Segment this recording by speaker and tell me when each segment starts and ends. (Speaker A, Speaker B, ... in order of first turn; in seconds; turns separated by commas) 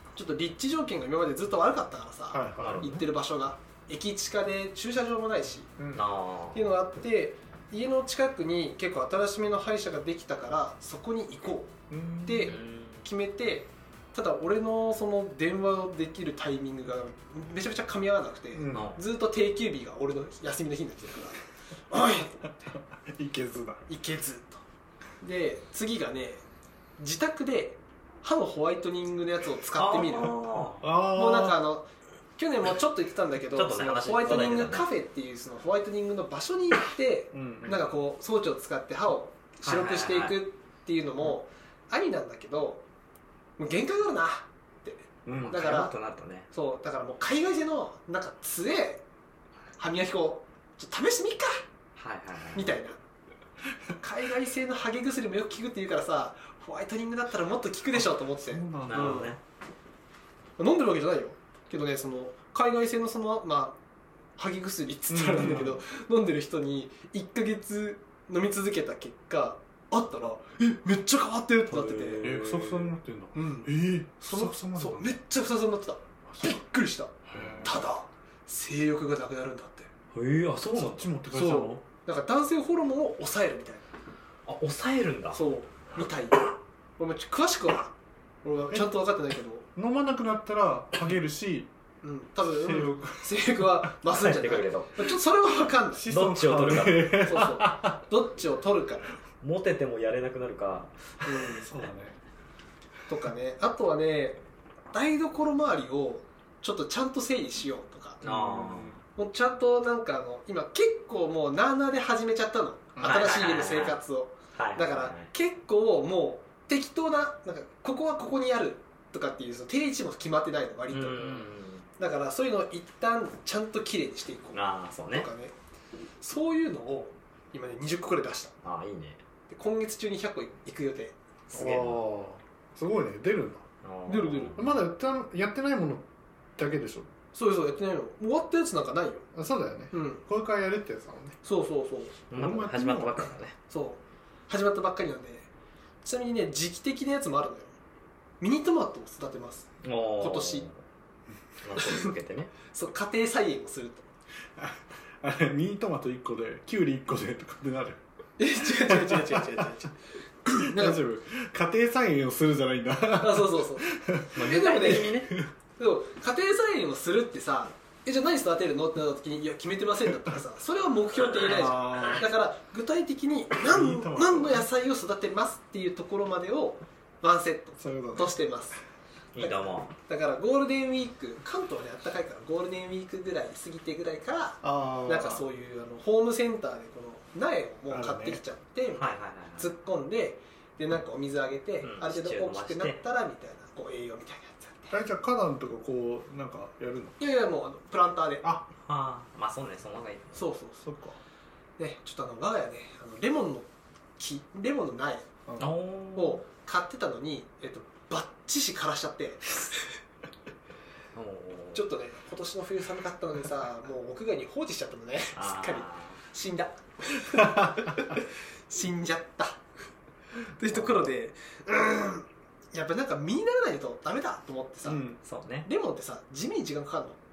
Speaker A: 0.1-5.7, Speaker B: 2.3-3.0, Speaker C: 2.6-3.0, Speaker B: 5.8-6.1, Speaker C: 5.9-6.7, Speaker A: 6.5-22.7, Speaker B: 11.9-12.5, Speaker C: 12.4-13.0, Speaker B: 18.5-19.0, Speaker C: 18.7-19.0, Speaker B: 22.5-23.9, Speaker A: 23.9-24.6, Speaker A: 25.2-26.4, Speaker A: 27.0-30.4, Speaker C: 29.8-30.8, Speaker B: 30.8-31.6, Speaker A: 31.0-42.8, Speaker C: 33.5-34.9, Speaker B: 37.3-37.9, Speaker C: 39.6-40.4, Speaker A: 43.6-45.9, Speaker B: 45.2-45.6, Speaker C: 45.3-46.5, Speaker A: 46.5-49.0, Speaker A: 49.8-51.6, Speaker C: 52.0-52.7, Speaker A: 52.5-53.0, Speaker A: 54.0-59.4, Speaker B: 57.9-59.4, Speaker C: 58.8-59.4, Speaker A: 60.6-63.8, Speaker A: 64.4-72.3, Speaker B: 65.1-65.8, Speaker C: 71.7-73.0, Speaker B: 72.2-75.2, Speaker A: 73.3-79.9, Speaker B: 76.3-76.6, Speaker B: 77.3-77.9, Speaker C: 77.3-77.7, Speaker C: 80.1-81.1, Speaker B: 80.7-81.8, Speaker A: 81.3-83.9, Speaker C: 84.5-85.4, Speaker A: 85.3-89.7, Speaker B: 89.8-91.7, Speaker A: 92.0-96.1, Speaker B: 92.6-93.9, Speaker C: 94.1-95.1, Speaker B: 95.9-98.0, Speaker C: 96.1-97.2, Speaker A: 97.1-99.2, Speaker C: 99.4-101.6, Speaker A: 101.2-101.7, Speaker B: 101.5-102.2, Speaker A: 103.1-108.2, Speaker C: 108.2-109.0, Speaker B: 108.2-109.0, Speaker A: 109.2-121.3, Speaker C: 113.0-114.0, Speaker C: 114.5-115.3, Speaker C: 120.9-121.9, Speaker B: 121.2-121.5, Speaker A: 122.0-125.5, Speaker C: 124.5-125.3, Speaker A: 126.2-128.5, Speaker C: 128.6-129.2, Speaker A: 129.5-131.2, Speaker C: 131.5-132.0, Speaker B: 131.5-133.7, Speaker C: 133.8-134.7, Speaker A: 134.1-134.6, Speaker B: 134.5-137.1, Speaker A: 137.3-139.3, Speaker B: 139.3-141.4, Speaker A: 139.9-140.2, Speaker A: 141.4-142.2, Speaker C: 142.3-143.5, Speaker B: 142.3-143.3, Speaker A: 143.7-145.5, Speaker A: 146.0-147.8, Speaker A: 148.4-150.7, Speaker C: 149.8-150.8, Speaker C: 151.6-152.5, Speaker A: 151.8-152.1, Speaker A: 152.7-154.1, Speaker B: 154.6-158.0, Speaker A: 158.4-159.9, Speaker B: 158.6-159.5, Speaker A: 160.4-161.0, Speaker B: 160.5-165.5, Speaker A: 163.2-165.2, Speaker C: 164.3-165.3, Speaker A: 165.8-178.8, Speaker B: 171.4-172.2, Speaker B: 173.5-174.7, Speaker B: 177.8-178.4, Speaker C: 179.3-179.9, Speaker A: 179.4-194.9, Speaker B: 184.6-185.5, Speaker B: 187.9-188.4, Speaker C: 188.9-189.7, Speaker C: 191.8-193.0, Speaker B: 194.9-197.2, Speaker A: 197.2-198.5, Speaker B: 198.4-198.7, Speaker C: 198.8-200.4, Speaker A: 200.3-200.8, Speaker B: 200.8-201.2, Speaker A: 201.8-205.3, Speaker B: 205.5-205.7, Speaker C: 205.6-206.4, Speaker A: 206.1-209.6, Speaker C: 211.1-211.8, Speaker A: 211.7-219.6, Speaker C: 215.3-216.2, Speaker B: 217.4-217.7, Speaker A: 220.6-225.1, Speaker B: 224.8-225.2, Speaker C: 225.2-225.7, Speaker A: 225.7-227.2